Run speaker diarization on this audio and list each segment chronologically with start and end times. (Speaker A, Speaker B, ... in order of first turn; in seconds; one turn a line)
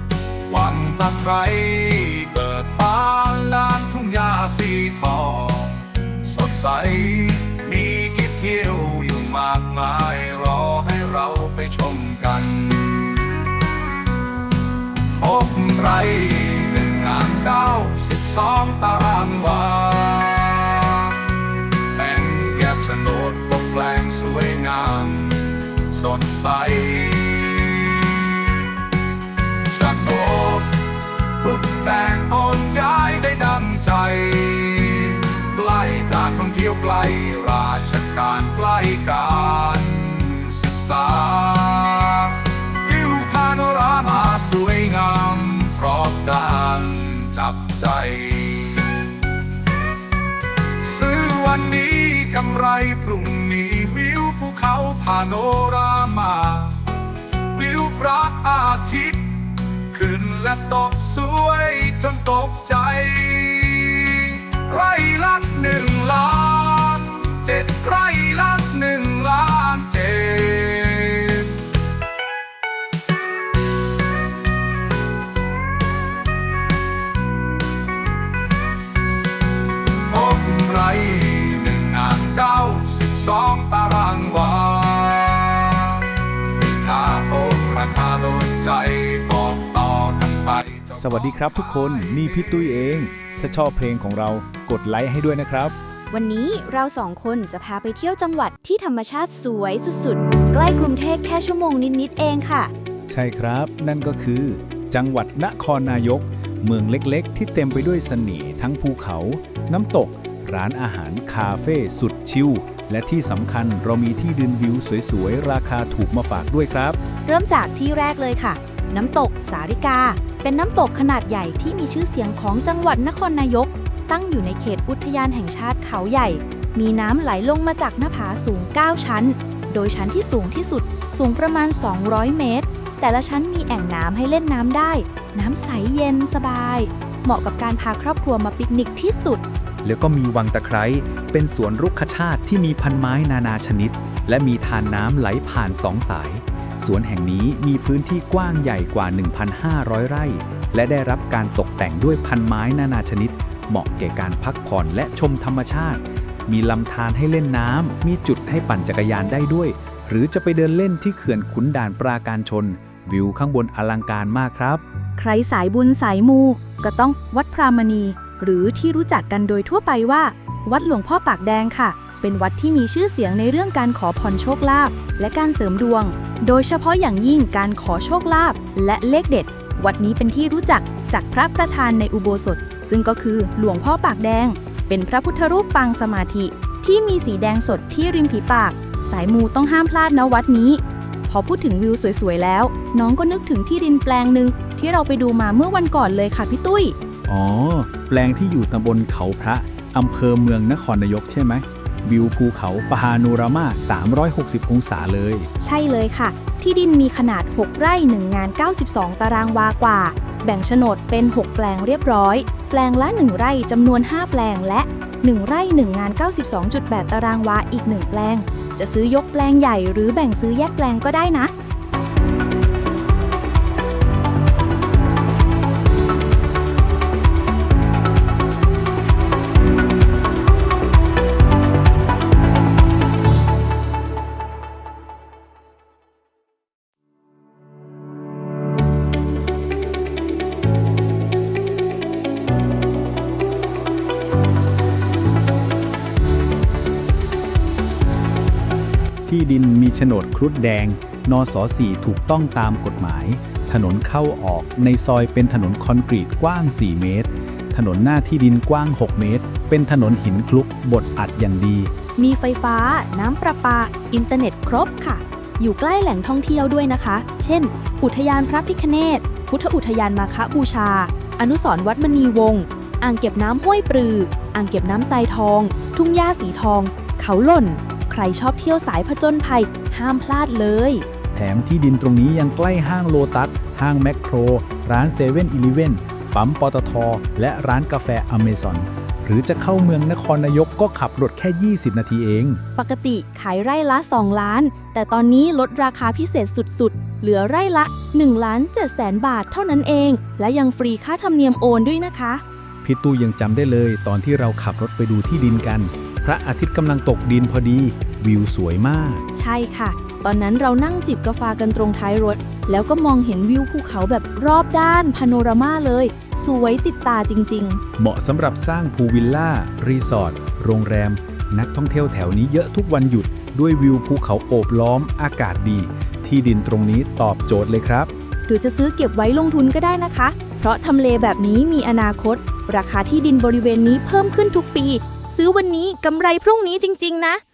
Speaker A: 0.5-13.4
Speaker A: 15.1-28.7
Speaker A: 29.7-49.2
Speaker A: 50.8-56.9
Speaker A: 57.5-71.6
Speaker A: 80.0-92.7
Speaker B: 91.0-95.8
Speaker C: 96.1-102.7
Speaker B: 103.1-117.0
Speaker C: 117.2-139.4
Speaker B: 139.8-164.8
Speaker C: 165.2-197.0
Speaker B: 197.3-205.5
Speaker C: 205.6-221.5
Speaker B: 249.3-261.9
Speaker C: 262.2-281.1
Speaker B: 281.3-292.6
Speaker C: 292.8-302.4
Speaker B: 302.8-309.2
Speaker C: 309.3-317.8
Speaker B: 318.0-328.1
Speaker C: 328.5-337.4